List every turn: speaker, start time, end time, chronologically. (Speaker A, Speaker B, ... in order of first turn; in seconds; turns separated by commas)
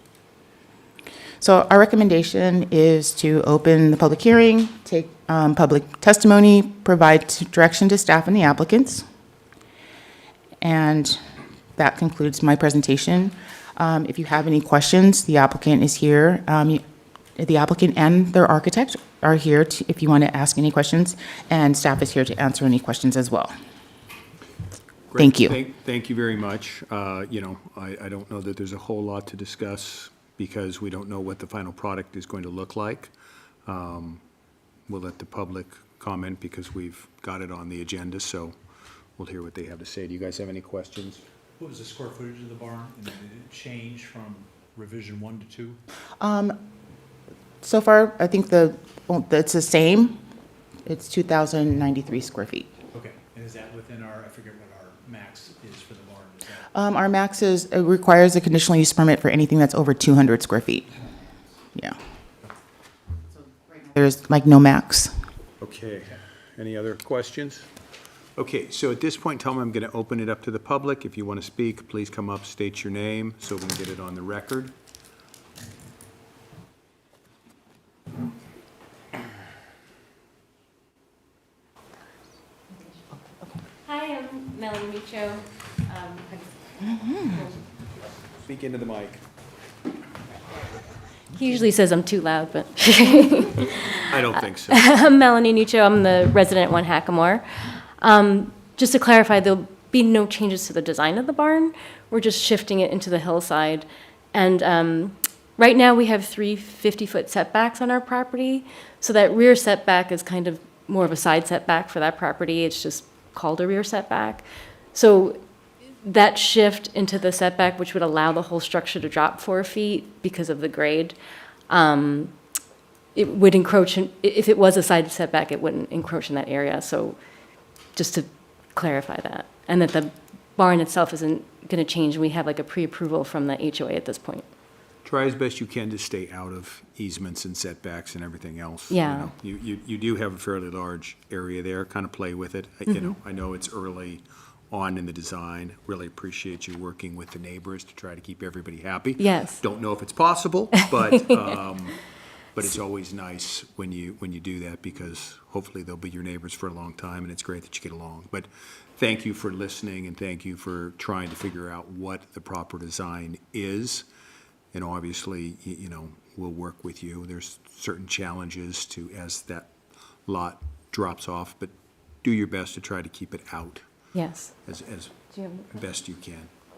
Speaker A: 1.4-9.0, Speaker A: 10.6-11.2, Speaker A: 11.8-16.8, Speaker A: 17.4-23.5, Speaker B: 25.1-33.1, Speaker A: 25.2-25.6, Speaker B: 33.6-34.2, Speaker B: 34.9-38.5, Speaker B: 39.2-41.2, Speaker C: 41.6-45.8, Speaker A: 46.2-46.6, Speaker A: 47.6-50.2, Speaker A: 50.9-52.7, Speaker C: 52.9-56.7, Speaker A: 56.7-60.9, Speaker A: 63.5-65.1, Speaker B: 65.6-67.7, Speaker B: 68.4-74.7, Speaker D: 83.8-86.5, Speaker D: 87.0-87.6, Speaker B: 88.5-89.2, Speaker D: 91.3-115.4, Speaker B: 94.1-94.8, Speaker D: 116.0-121.2, Speaker D: 121.7-122.3, Speaker D: 123.1-127.2, Speaker D: 127.9-134.4, Speaker B: 135.0-152.0, Speaker D: 138.9-139.3, Speaker D: 149.2-149.6, Speaker B: 152.6-164.1, Speaker B: 164.7-169.7, Speaker B: 170.2-173.8, Speaker D: 174.1-174.5, Speaker B: 174.7-175.1, Speaker D: 175.3-175.7, Speaker B: 175.7-176.5